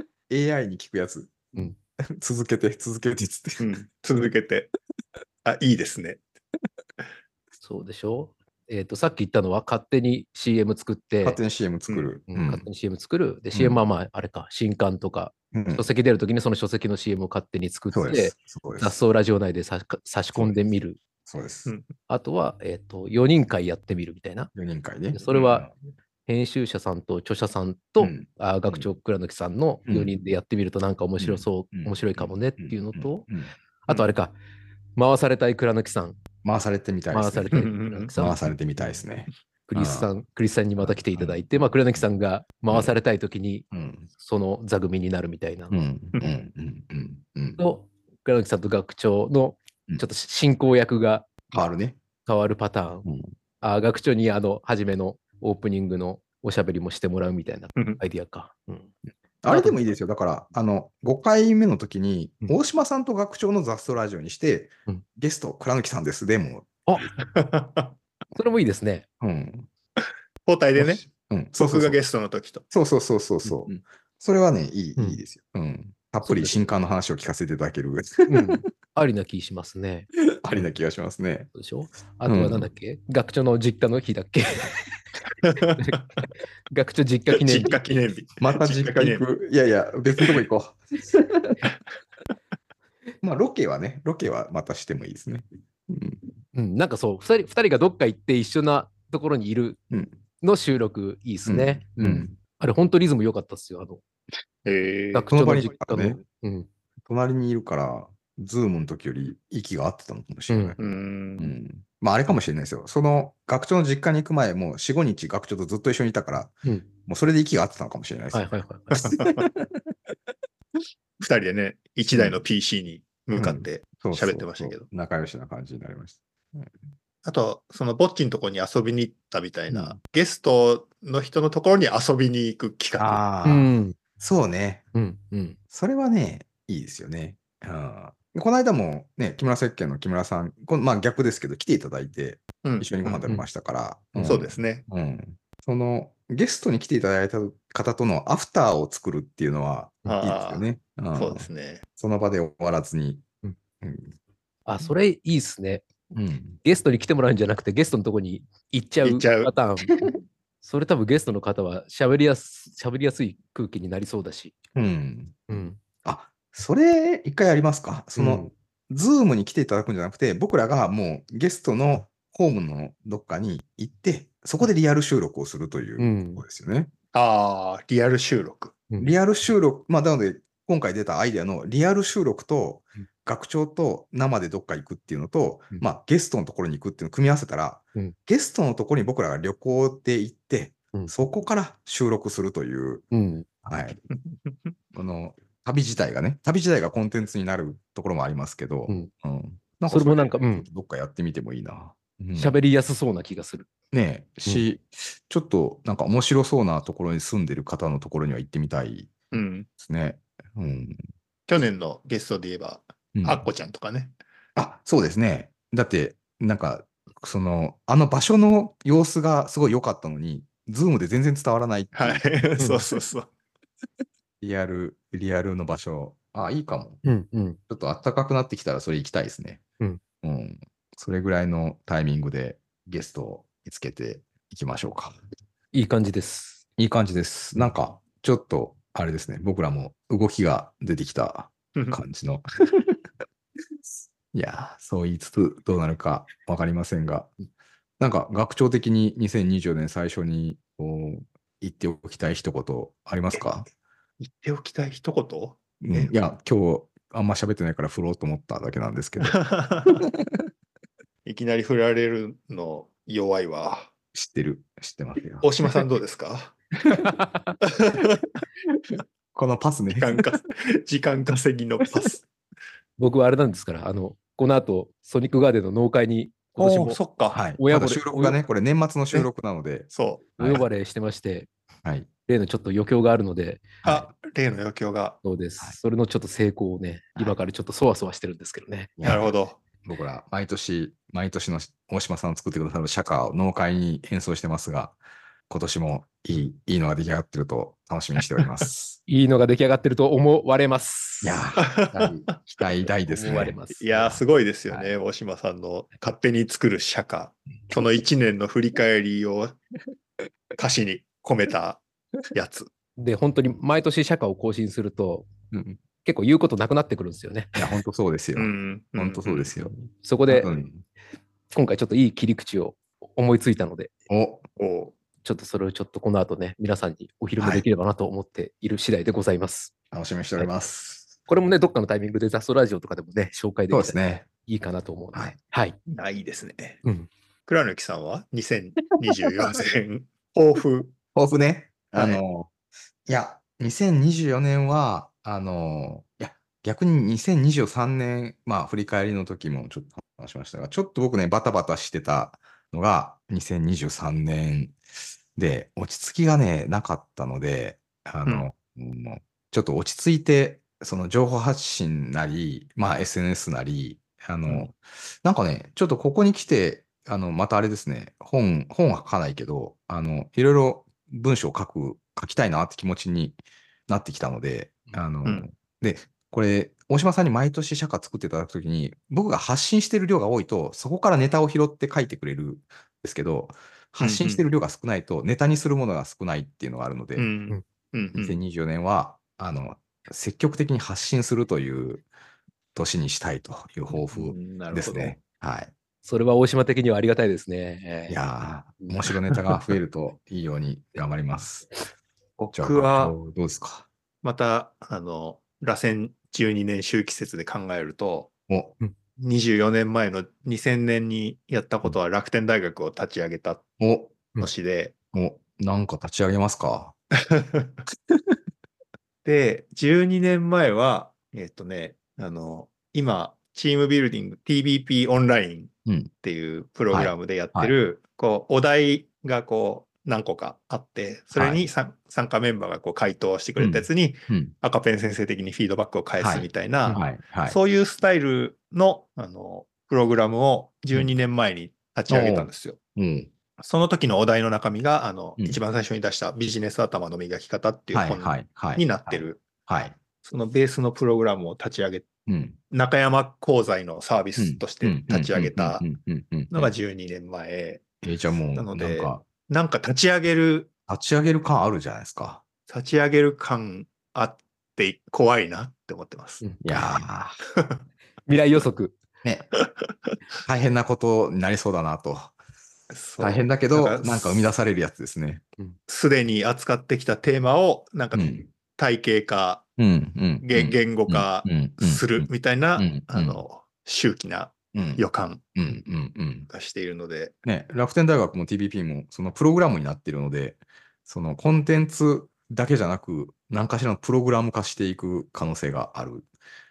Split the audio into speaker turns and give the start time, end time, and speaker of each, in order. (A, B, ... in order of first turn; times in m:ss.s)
0:00.3-0:03.7 A
0:03.6-0:04.7 B
0:05.4-0:06.2 B
0:07.6-0:11.4 C
0:11.2-0:12.7 A
0:12.3-0:21.0 C
0:13.5-0:13.8 A
0:15.5-0:15.9 A
0:17.9-0:19.0 A
0:21.3-0:21.7 A
0:21.7-0:21.9 B
0:22.1-0:24.5 C
0:24.6-0:25.7 A
0:25.1-0:25.7 C
0:26.3-0:33.3 C
0:28.0-0:28.9 A
0:29.9-0:30.2 A
0:31.2-0:33.5 A
0:33.8-0:34.3 C
0:35.0-0:36.2 C
0:36.4-0:40.1 A
0:37.1-0:38.5 C
0:37.5-0:38.1 B
0:39.7-0:45.8 C
0:40.8-0:42.1 A
0:42.7-0:43.0 A
0:43.7-0:44.1 A
0:45.7-0:47.6 A
0:47.6-0:51.5 C
0:51.5-0:52.0 A
0:52.2-0:53.0 C
0:53.0-0:53.3 A
0:53.6-0:58.9 C
0:57.8-0:58.0 B
0:59.4-1:06.7 A
0:59.5-0:59.8 C
1:07.2-1:07.9 B
1:08.4-1:09.1 C
1:09.2-1:09.7 A
1:10.5-1:11.0 B
1:10.8-1:12.0 A
1:11.6-1:12.6 B
1:12.7-1:18.6 A
1:13.4-1:13.7 C
1:16.2-1:16.7 C
1:18.3-1:20.6 C
1:20.4-1:21.5 A
1:21.5-1:24.8 C
1:22.3-1:22.7 A
1:25.4-1:26.0 B
1:26.7-1:27.9 C
1:27.3-1:29.2 B
1:28.4-1:31.6 A
1:33.2-1:36.4 A
1:36.6-1:39.8 C
1:39.9-1:40.2 A
1:40.4-1:44.0 C
1:41.5-1:42.4 A
1:44.6-1:45.3 B
1:45.1-1:46.7 C
1:45.3-1:46.2 A
1:47.0-1:59.8 A
1:50.5-1:50.8 C
1:50.8-1:51.5 B
1:58.3-1:59.1 C
1:59.0-1:59.4 B
2:01.2-2:04.9 B
2:02.1-2:02.4 A
2:03.4-2:06.8 A
2:07.2-2:13.2 B
2:13.0-2:14.8 A
2:13.4-2:14.0 C
2:14.9-2:15.6 C
2:15.7-2:33.3 A
2:22.6-2:23.2 B
2:24.2-2:24.8 B
2:30.1-2:31.8 B
2:33.8-2:34.1 A
2:34.7-2:35.9 C
2:36.1-2:36.6 A
2:36.6-2:40.0 C
2:39.0-2:39.5 B
2:40.6-2:44.6 C
2:44.8-2:45.4 A
2:45.5-2:45.8 C
2:46.0-2:56.9 A
2:48.2-2:48.5 C
2:56.0-2:56.4 C
2:57.1-2:58.8 B
2:59.0-3:13.1 A
3:13.1-3:13.5 C
3:13.6-3:14.0 A
3:14.9-3:22.6 A
3:19.9-3:20.7 C
3:22.4-3:23.7 C
3:23.9-3:29.2 A
3:29.3-3:29.7 B
3:29.8-3:31.0 A
3:31.5-3:34.2 B
3:33.2-3:33.4 A
3:34.6-3:42.2 A
3:41.9-3:43.3 B
3:42.6-3:42.8 C
3:44.4-3:47.0 A
3:47.0-3:47.6 C
3:47.7-3:49.6 A
3:50.2-3:55.2 A
3:55.7-3:56.6 C
3:56.8-4:03.0 A
4:04.3-4:07.3 A
4:08.0-4:13.7 A
4:14.2-4:16.1 B
4:15.8-4:20.4 A
4:19.2-4:20.1 B
4:21.2-4:23.9 B
4:24.1-4:25.8 A
4:25.4-4:26.6 B
4:26.9-4:27.6 C
4:27.8-4:28.3 B
4:29.4-4:30.2 A
4:30.0-4:32.2 B
4:33.0-4:37.0 C
4:36.6-4:37.4 B
4:37.3-4:40.7 A
4:37.6-4:38.4 C
4:39.9-4:40.3 B
4:40.4-4:41.5 C
4:42.3-4:43.7 C
4:43.8-4:44.1 A
4:43.8-4:45.2 B
4:45.2-4:48.9 C
4:49.0-4:49.3 A
4:49.0-4:49.6 B
4:49.8-4:55.0 A
4:55.5-4:59.0 A
4:59.1-5:01.4 C
5:01.2-5:04.9 A
5:01.6-5:02.4 B
5:03.1-5:03.8 C
5:03.8-5:09.6 B
5:10.6-5:11.8 B
5:12.3-5:12.7 B
5:13.0-5:15.3 C
5:15.5-5:15.8 A
5:16.0-5:17.6 C
5:17.6-5:20.8 A
5:18.4-5:19.5 B
5:20.0-5:20.5 C
5:21.5-5:23.9 C
5:24.1-5:24.4 A
5:24.6-5:25.0 B
5:25.2-5:29.7 C
5:27.4-5:27.7 A
5:29.9-5:31.2 A
5:31.3-5:35.8 C
5:33.7-5:34.3 A
5:35.9-5:36.8 B
5:37.5-5:41.0 B
5:41.2-5:42.5 A
5:41.9-5:42.2 B
5:43.1-5:54.8 A
5:55.4-6:27.3 A
6:24.0-6:24.4 B
6:27.2-6:28.4 B
6:28.2-6:32.0 A
6:32.8-6:35.7 A
6:34.1-6:35.2 B
6:36.0-6:38.2 C
6:38.1-6:41.8 A
6:42.4-6:43.2 B
6:42.5-6:43.9 A
6:44.2-6:48.3 B
6:48.5-6:48.8 A
6:49.2-6:53.6 B
6:53.8-6:54.2 A
6:54.4-6:55.0 B
6:55.1-6:57.0 A
6:57.3-6:57.7 B
6:59.2-7:22.8 B
7:05.9-7:06.1 A
7:06.9-7:07.8 A
7:11.3-7:11.7 A
7:13.6-7:14.5 A
7:16.2-7:17.6 A
7:22.1-7:23.3 A
7:23.6-7:29.4 B
7:27.9-7:30.0 A
7:30.2-7:32.1 B
7:32.3-7:32.6 A
7:32.7-7:35.9 B
7:34.4-7:36.7 A
7:36.5-7:38.0 B
7:38.0-7:39.2 A
7:38.6-7:40.7 B
7:40.9-7:42.4 A
7:42.7-7:46.4 B
7:46.4-7:46.8 C
7:46.6-7:47.4 A
7:48.3-7:49.0 C
7:49.2-7:49.5 A
7:49.6-7:50.2 B
7:50.5-7:52.4 A
7:52.9-7:54.5 B
7:53.2-7:55.4 A
7:55.9-7:59.6 B
7:58.1-7:58.5 A
7:59.8-8:03.4 A
8:00.4-8:05.4 B
8:04.7-8:05.0 A
8:05.6-8:06.5 A
8:06.5-8:07.4 B
8:07.4-8:16.3 A